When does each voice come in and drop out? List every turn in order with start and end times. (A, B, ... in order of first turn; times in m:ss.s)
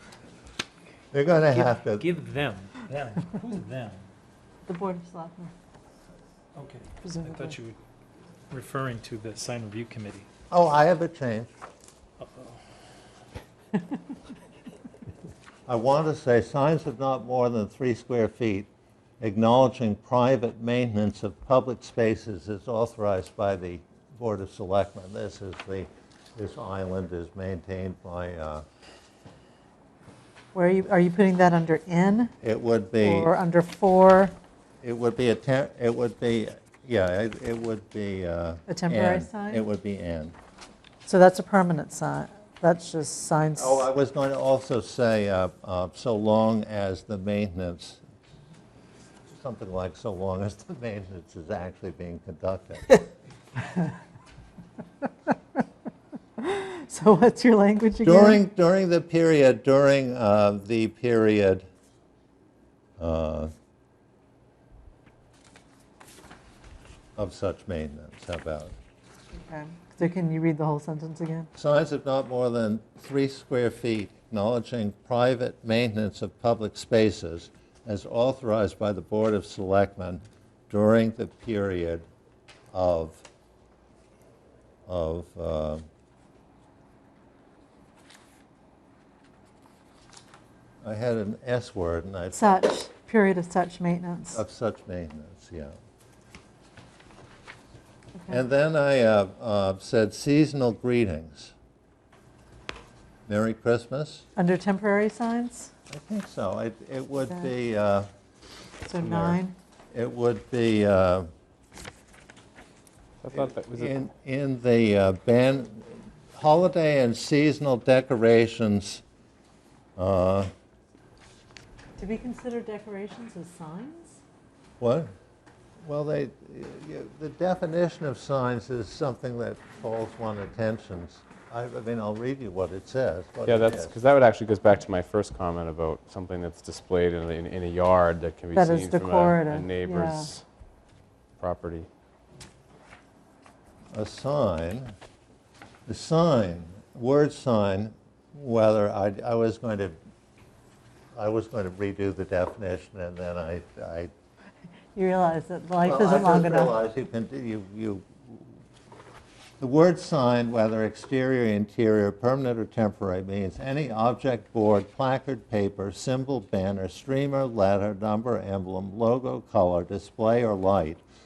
0:01.1-0:02.1 A
0:01.5-0:04.0 B
0:04.7-0:05.5 C
0:06.6-0:07.8 B
0:07.0-0:07.6 C
0:08.5-0:10.3 B
0:10.5-0:11.5 A
0:12.2-0:12.6 B
0:15.7-0:18.7 A
0:19.2-0:28.6 A
0:30.5-0:32.3 C
0:32.4-0:33.3 A
0:33.0-0:34.4 C
0:34.8-0:40.4 A
0:38.7-0:39.6 C
0:41.0-0:43.9 C
0:43.6-0:48.0 A
0:49.3-0:53.0 A
0:56.4-0:58.4 C
0:58.0-1:01.7 A
1:03.0-1:03.5 A
1:07.2-1:08.8 A
1:09.3-1:11.5 C
1:11.6-1:22.0 A
1:22.7-1:23.2 A
1:24.9-1:25.8 A
1:30.8-1:32.6 A
1:32.3-1:34.4 C
1:34.3-1:35.8 A
1:38.3-1:41.5 A
1:43.3-1:44.3 A
1:44.4-1:45.7 C
1:45.9-1:48.1 A
1:48.8-1:49.6 C
1:49.1-1:49.4 A
1:49.9-1:51.3 A
1:53.2-1:53.9 D
1:53.3-1:59.0 A
2:00.0-2:00.5 A
2:02.0-2:04.2 C
2:04.8-2:05.1 A
2:05.8-2:14.0 A
2:13.4-2:20.4 D
2:18.5-2:20.3 C
2:21.4-2:21.9 D
2:23.9-2:24.9 A
2:25.9-2:30.0 A
2:31.2-2:34.1 A
2:34.9-2:36.8 C
2:35.8-2:38.5 A
2:39.6-2:51.0 A